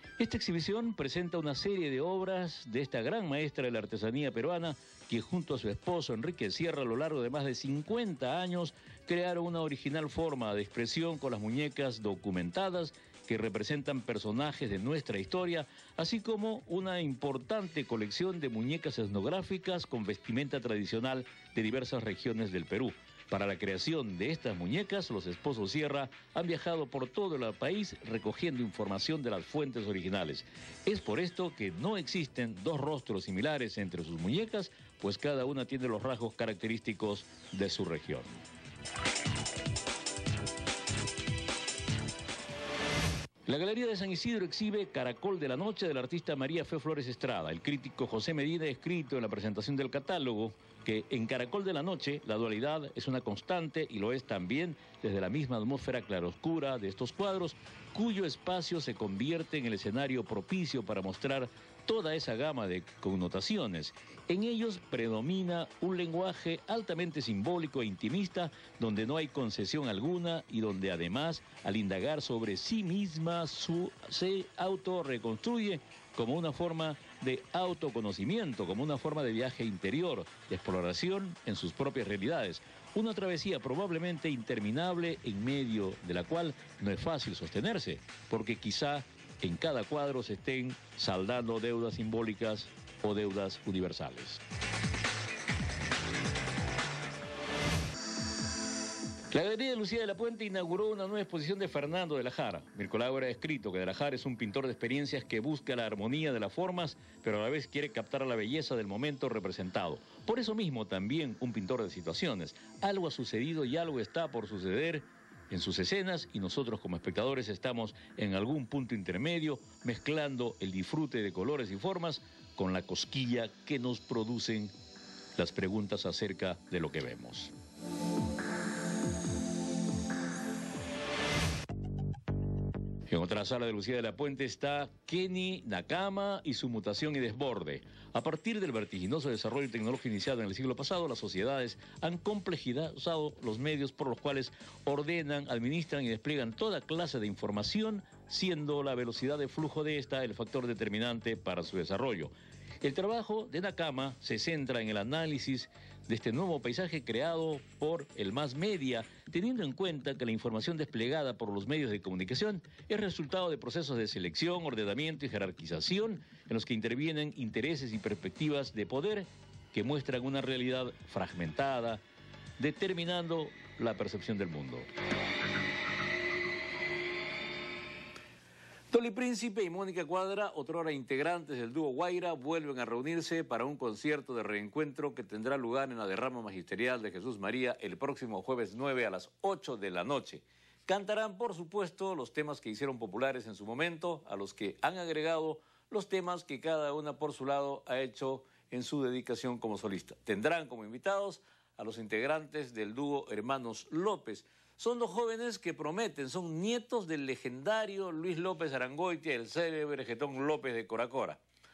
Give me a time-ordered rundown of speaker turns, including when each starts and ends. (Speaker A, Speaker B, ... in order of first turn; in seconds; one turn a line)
Speaker A: 0.2-38.4
Speaker A: 43.5-94.4
Speaker A: 99.3-124.7
Speaker A: 125.3-127.5
Speaker A: 133.1-172.0
Speaker A: 172.6-174.9
Speaker A: 178.9-211.4